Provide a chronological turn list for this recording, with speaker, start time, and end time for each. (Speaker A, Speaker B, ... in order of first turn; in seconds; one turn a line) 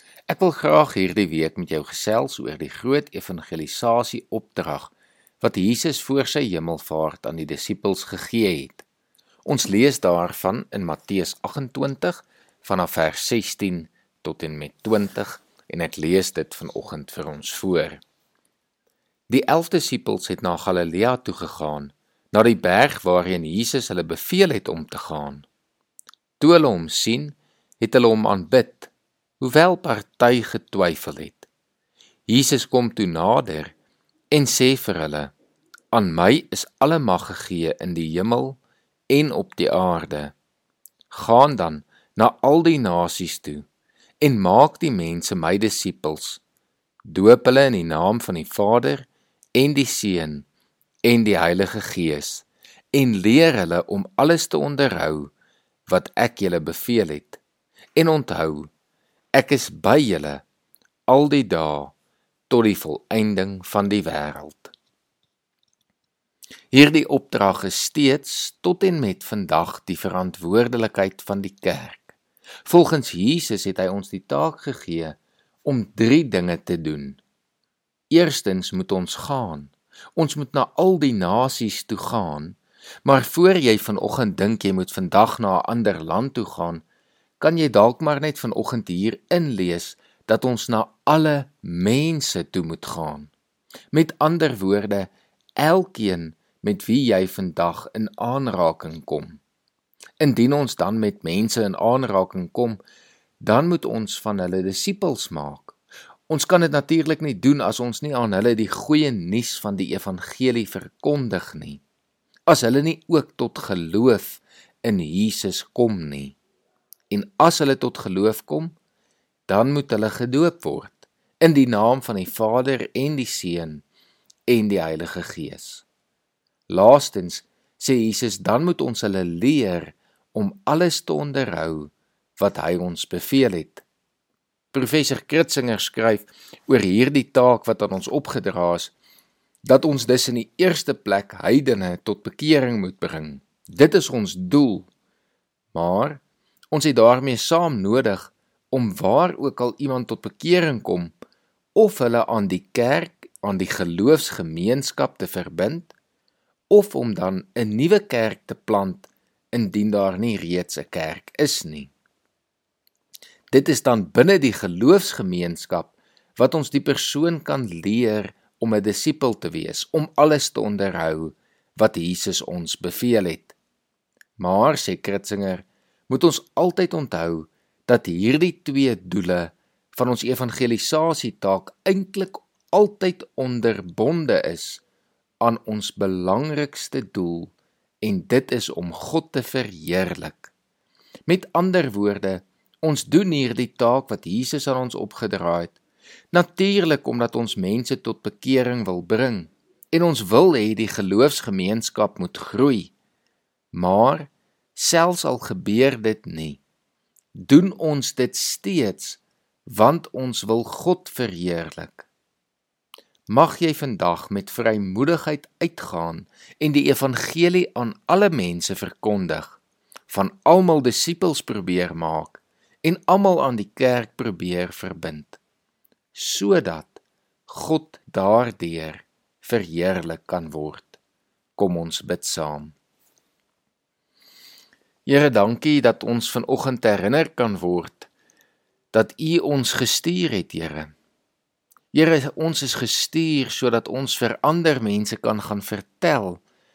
Speaker A: 0.3-8.8
Speaker A: 9.4-18.0
Speaker A: 19.3-25.4
Speaker A: 26.4-31.5
Speaker A: 32.3-33.7
Speaker A: 34.3-35.3
Speaker A: 35.9-38.6
Speaker A: 39.1-40.3
Speaker A: 41.1-43.6
Speaker A: 44.2-46.4
Speaker A: 47.0-50.5
Speaker A: 51.0-55.3
Speaker A: 55.9-57.4
Speaker A: 58.0-58.7
Speaker A: 59.3-60.4
Speaker A: 61.1-61.9
Speaker A: 62.5-64.7
Speaker A: 66.7-77.2
Speaker A: 78.1-86.8
Speaker A: 87.4-93.3
Speaker A: 93.9-99.4
Speaker A: 100.2-102.8
Speaker A: 103.4-105.8
Speaker A: 106.3-111.8
Speaker A: 112.5-116.3
Speaker A: 117.1-118.7
Speaker A: 119.5-123.8
Speaker A: 124.5-125.8
Speaker A: 126.7-133.8
Speaker A: 134.7-138.9
Speaker A: 139.6-144.9
Speaker A: 145.7-151.1
Speaker A: 151.7-155.9
Speaker A: 156.7-161.9
Speaker A: 163.5-173.6
Speaker A: 174.4-184.8
Speaker A: 185.4-190.5
Speaker A: 191.3-195.8
Speaker A: 196.3-202.9
Speaker A: 203.7-206.6
Speaker A: 207.3-212.1
Speaker A: 213.3-225.4
Speaker A: 226.1-231.0
Speaker A: 231.6-232.7
Speaker A: 235.1-238.1
Speaker A: 238.9-240.9
Speaker A: 241.9-246.4